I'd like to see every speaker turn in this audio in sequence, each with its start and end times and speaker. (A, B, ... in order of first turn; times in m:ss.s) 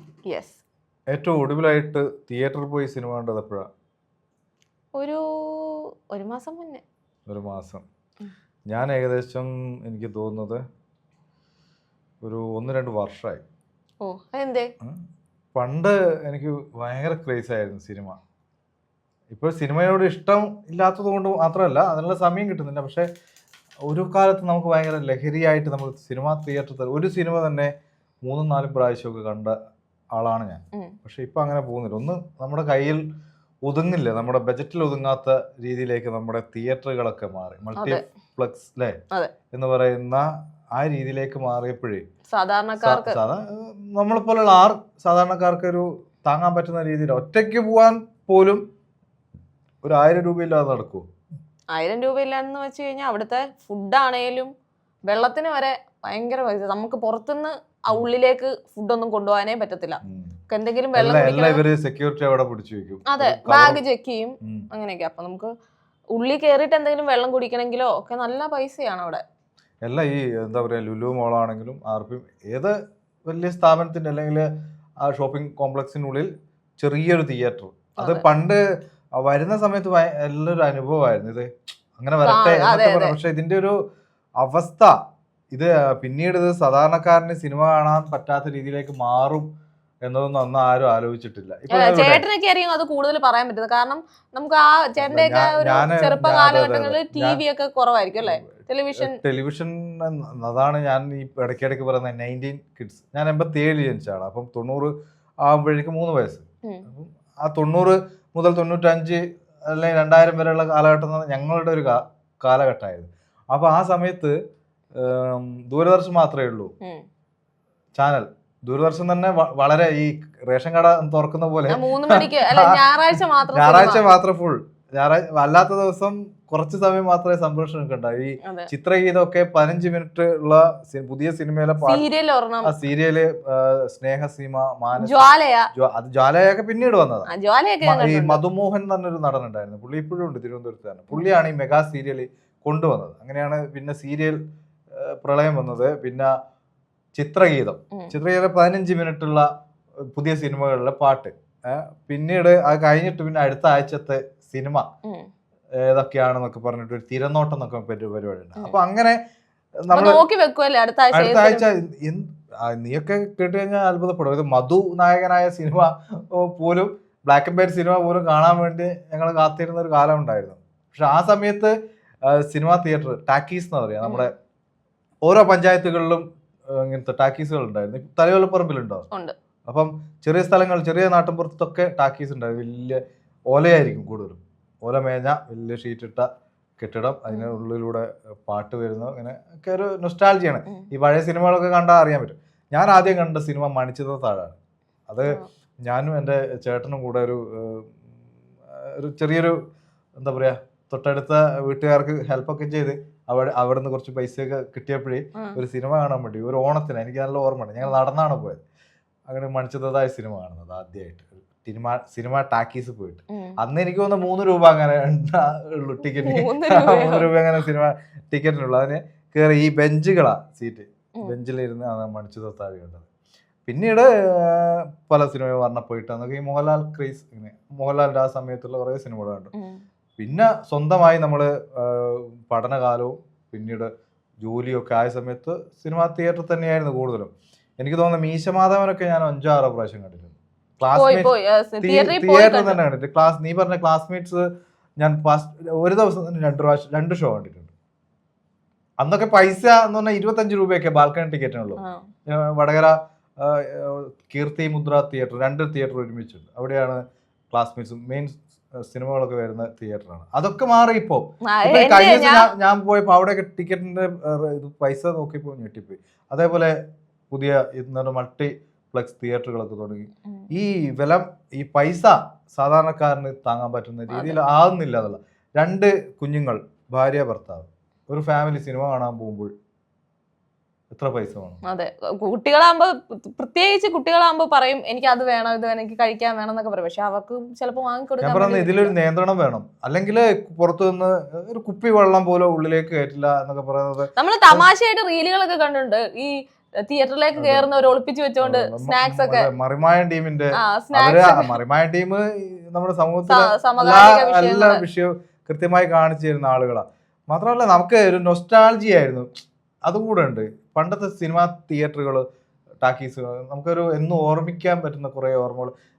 0:00.3-0:00.6 A
0:01.1-0:03.7 B
0:05.0-0:06.8 A
0:07.3-0:07.8 B
0:08.7-0:10.6 B
0:12.2-0:13.4 B
0:14.0-0:14.7 A
0:15.6-0:18.2 B
0:19.3-0:23.1 B
0:23.9-0:27.7 B
0:28.2-0:29.6 B
0:30.1-0:33.0 B
0:33.7-0:39.0 B
0:37.8-0:38.0 A
0:39.5-0:42.0 B
0:42.3-0:43.2 A
0:42.8-0:48.6 B
0:49.8-0:51.1 B
0:51.7-0:54.5 A
0:55.1-1:01.6 A
1:00.0-1:00.3 B
1:01.0-1:03.8 B
1:03.1-1:05.5 A
1:06.1-1:09.2 A
1:09.8-1:12.7 B
1:13.3-1:14.5 B
1:15.0-1:18.6 B
1:18.0-1:18.2 A
1:19.2-1:23.8 B
1:22.2-1:23.2 A
1:24.4-1:25.0 B
1:25.5-1:29.5 B
1:30.1-1:32.2 B
1:31.7-1:39.1 A
1:35.0-1:37.4 B
1:39.0-1:44.9 B
1:45.4-1:54.3 B
1:55.0-1:56.7 B
1:58.0-2:02.8 B
2:01.7-2:04.0 A
2:03.5-2:12.1 B
2:08.4-2:08.7 A
2:11.8-2:12.7 A
2:12.6-2:17.3 B
2:15.0-2:15.7 A
2:17.3-2:18.4 A
2:17.8-2:24.4 B
2:25.0-2:26.3 B
2:27.2-2:29.5 B
2:30.2-2:34.9 B
2:35.8-2:39.2 B
2:39.8-2:40.2 B
2:39.9-2:41.7 A
2:41.1-2:51.7 B
2:52.3-2:54.3 B
2:54.0-2:54.3 A
2:55.3-2:59.0 B
2:59.7-3:03.0 B
3:03.5-3:06.3 B
3:06.8-3:14.6 B
3:07.3-3:07.6 A
3:15.1-3:17.9 B
3:18.7-3:19.6 B
3:20.2-3:28.6 B
3:29.3-3:43.1 B
3:33.3-3:33.6 A
3:36.2-3:37.4 A
3:43.7-3:49.5 B
3:50.2-3:53.9 B
3:54.4-4:01.3 B
4:01.0-4:02.8 A
4:01.8-4:04.5 B
4:05.0-4:07.7 B
4:09.0-4:17.0 B
4:17.5-4:26.7 B
4:21.4-4:22.5 A
4:27.3-4:39.5 B
4:34.1-4:34.4 A
4:40.9-4:41.6 B
4:41.7-4:48.9 A
4:48.2-4:54.7 B
4:54.2-4:59.5 A
4:57.4-4:57.7 B
4:58.4-5:09.3 B
5:00.6-5:01.5 A
5:03.3-5:04.8 A
5:09.9-5:12.2 B
5:12.8-5:15.7 B